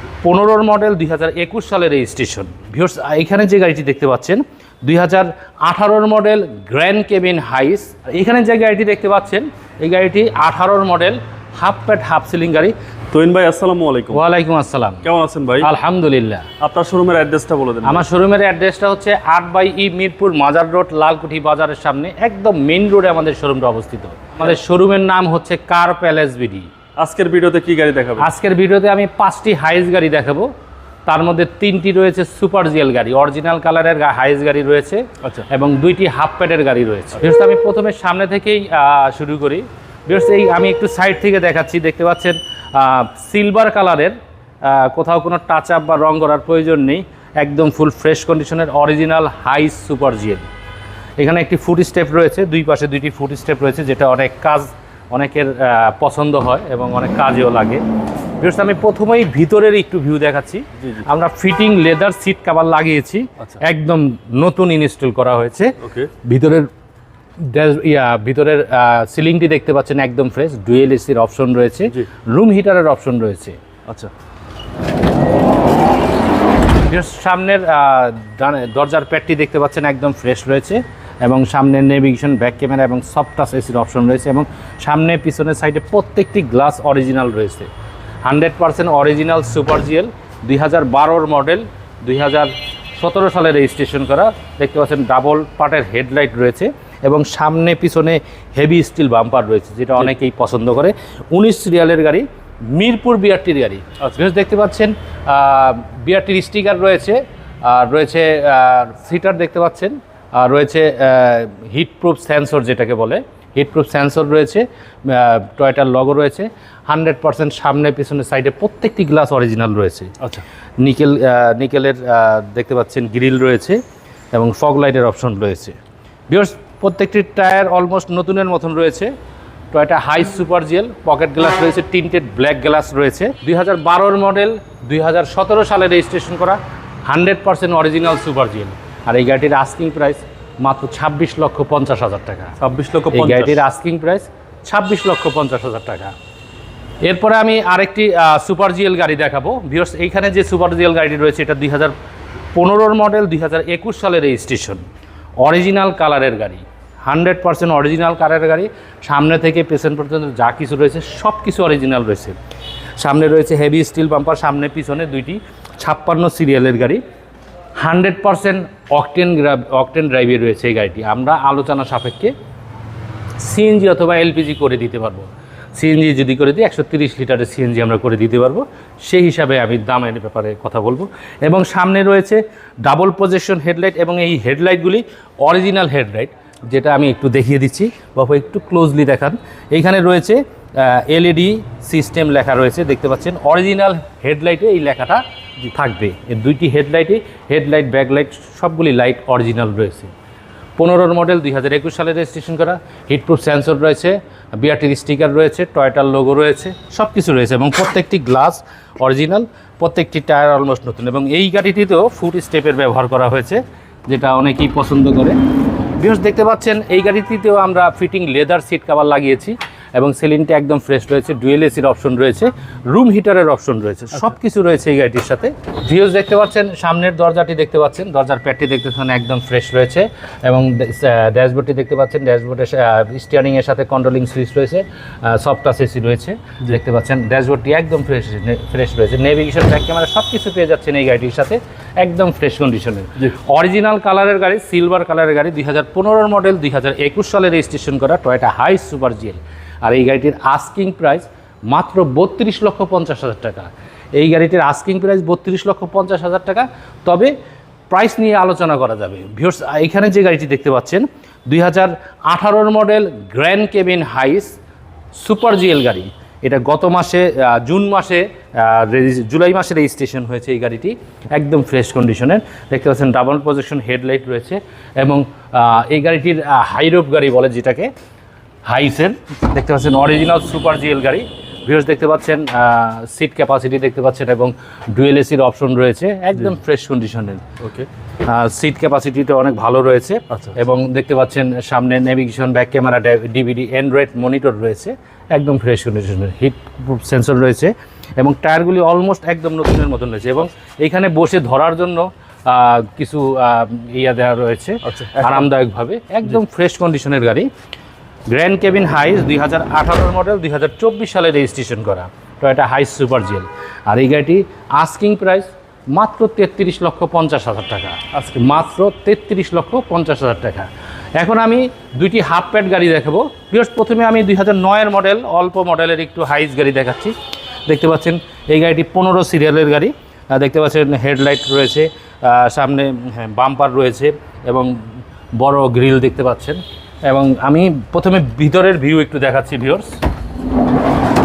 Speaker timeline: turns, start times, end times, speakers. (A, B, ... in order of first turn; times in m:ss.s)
0:00.2-0:12.7 A
0:13.1-0:14.2 B
0:14.1-0:15.0 A
0:15.0-0:15.7 B
0:15.6-0:16.5 A
0:16.6-0:18.0 B
0:17.8-0:26.7 A
0:27.0-0:28.3 B
0:28.2-0:30.5 A
0:31.0-0:50.5 A
0:51.2-0:57.8 A
0:58.4-1:06.7 A
1:05.8-1:06.1 B
1:07.4-1:13.6 A
1:16.8-1:27.7 A
1:28.2-2:00.2 A
2:00.8-2:03.8 A
2:04.3-2:05.8 A
2:06.3-2:09.1 A
2:09.7-2:22.5 A
2:22.6-2:23.6 B
2:23.1-2:26.1 A
2:27.0-2:31.9 A
2:32.5-2:34.8 A
2:35.4-2:42.4 A
2:43.0-2:47.0 A
2:47.8-2:52.3 A
2:53.4-3:20.1 A
3:20.8-3:35.4 A
3:36.0-4:17.3 A
4:17.9-4:24.6 A
4:25.2-4:37.9 A
4:38.6-4:47.4 A
4:47.6-4:47.9 B
4:48.2-5:07.5 A
5:04.8-5:05.5 B
5:08.3-5:27.2 A
5:18.1-5:18.5 B
5:27.7-5:34.8 A
5:35.4-5:39.9 A